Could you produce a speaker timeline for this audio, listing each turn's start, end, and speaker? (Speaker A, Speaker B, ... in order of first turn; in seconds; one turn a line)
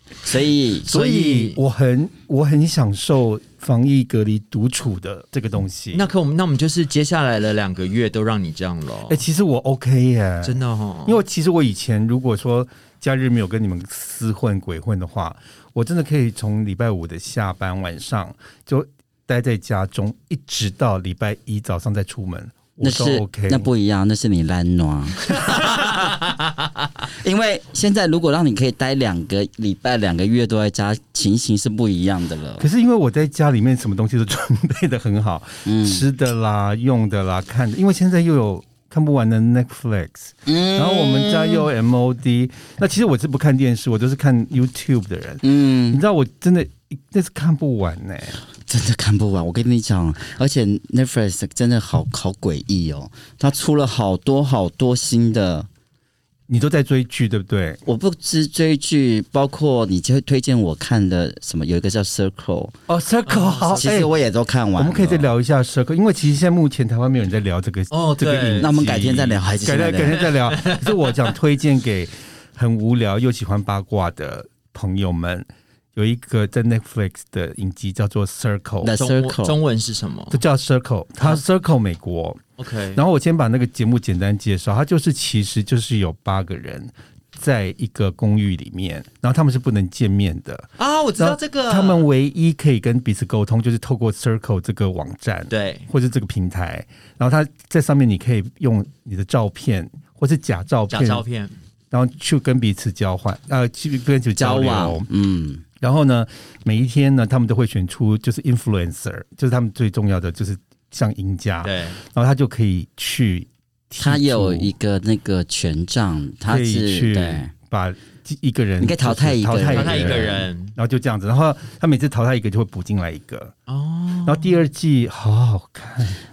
Speaker A: 0.2-0.9
Speaker B: 0.8-1.6
Speaker C: 0.9-6.1
Speaker B: 5.9-9.2
Speaker C: 9.1-23.7
Speaker B: 10.4-11.2
Speaker A: 22.8-26.3
Speaker A: 27.1-32.7
Speaker C: 32.6-48.4
Speaker A: 35.6-36.0
Speaker A: 40.5-41.7
Speaker A: 45.4-46.0
Speaker A: 48.6-55.7
Speaker C: 56.5-57.8
Speaker A: 57.9-62.7
Speaker C: 62.9-64.1
Speaker B: 63.3-64.0
Speaker A: 63.8-65.3
Speaker C: 64.8-79.0
Speaker B: 67.9-68.7
Speaker A: 68.6-70.3
Speaker B: 70.5-70.8
Speaker A: 78.8-79.6
Speaker B: 78.9-80.4
Speaker C: 80.3-82.4
Speaker B: 82.6-83.0
Speaker C: 83.0-101.2
Speaker B: 90.8-92.0
Speaker B: 95.5-95.9
Speaker B: 100.9-101.5
Speaker C: 101.9-105.0
Speaker A: 104.4-105.6
Speaker C: 105.8-114.7
Speaker B: 111.6-112.0
Speaker A: 114.0-117.5
Speaker C: 116.5-123.5
Speaker A: 118.8-120.4
Speaker B: 119.6-120.8
Speaker B: 123.7-124.5
Speaker C: 124.2-126.2